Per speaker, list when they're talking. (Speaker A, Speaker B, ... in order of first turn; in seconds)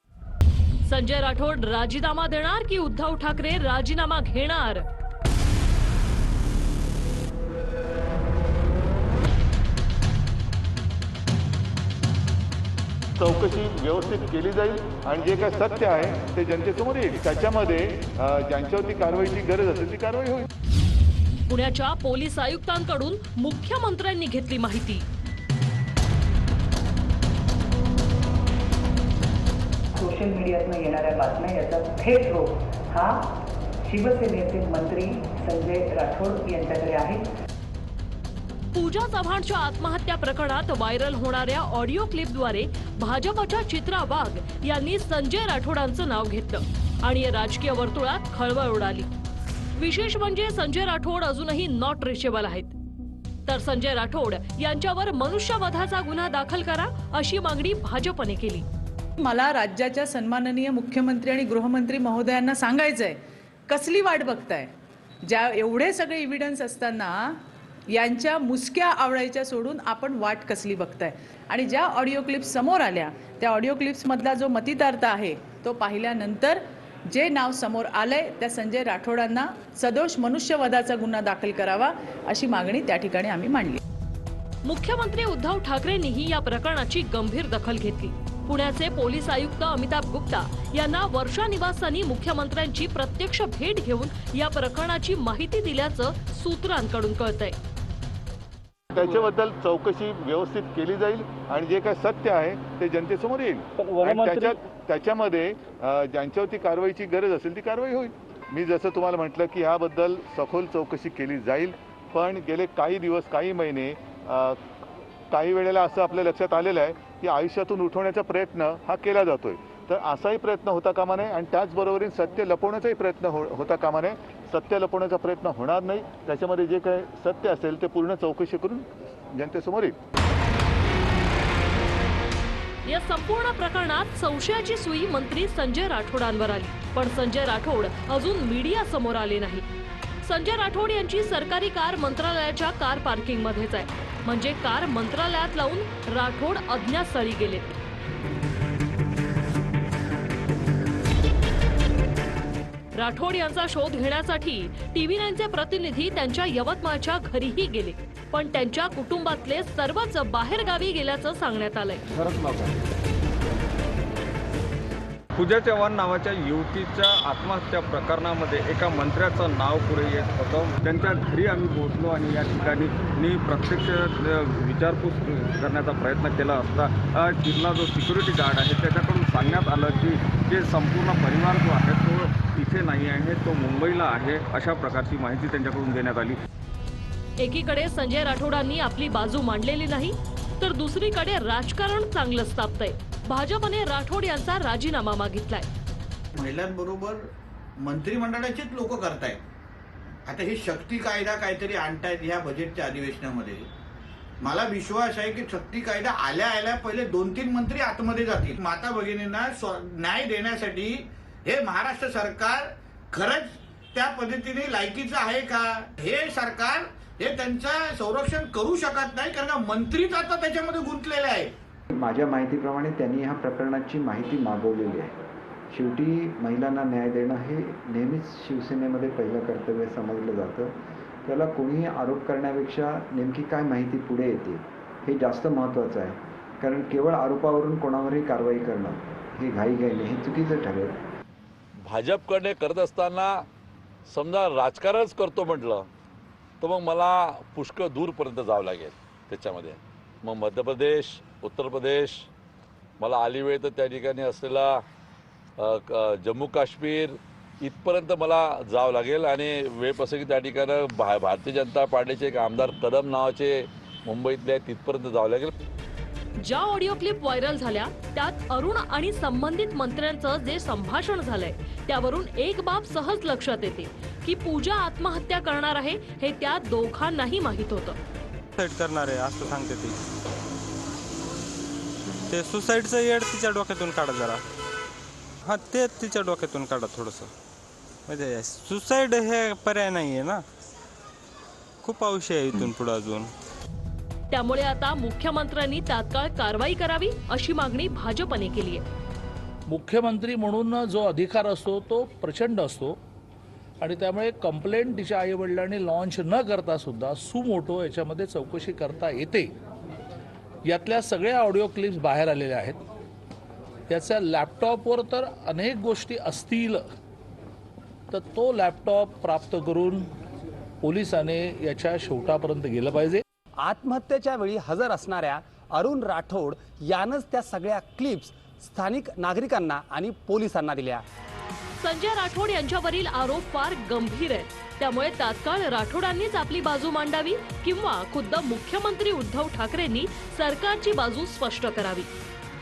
Speaker A: 0.9-4.8, 21.5-25.0, 38.7-49.1, 49.8-52.7, 53.5-58.6, 84.7-97.5, 132.8-139.6, 140.2-147.8, 152.9-162.0, 187.4-195.7, 266.4-278.0, 294.3-298.8, 331.8-342.1
Speaker B: 13.2-20.5, 98.9-114.6, 115.3-129.9
Speaker C: 30.0-33.2, 33.9-37.2
Speaker D: 59.2-64.7, 65.2-83.8
Speaker E: 104.1-104.5, 165.3-186.4
Speaker F: 196.3-197.2, 197.8-199.4, 200.2-203.7, 204.4-221.5
Speaker G: 221.9-225.1, 225.7-241.0
Speaker H: 241.8-243.4, 244.1-245.8, 246.6-252.3, 253.0-254.8, 255.6-265.5
Speaker I: 278.6-280.0, 282.3-284.4, 285.4-287.3, 288.1-290.4, 291.8-293.3
Speaker J: 299.7-303.0, 303.8-309.5, 310.6-312.8, 313.9-316.8, 318.1-320.1, 320.8-323.2
Speaker K: 323.7-331.0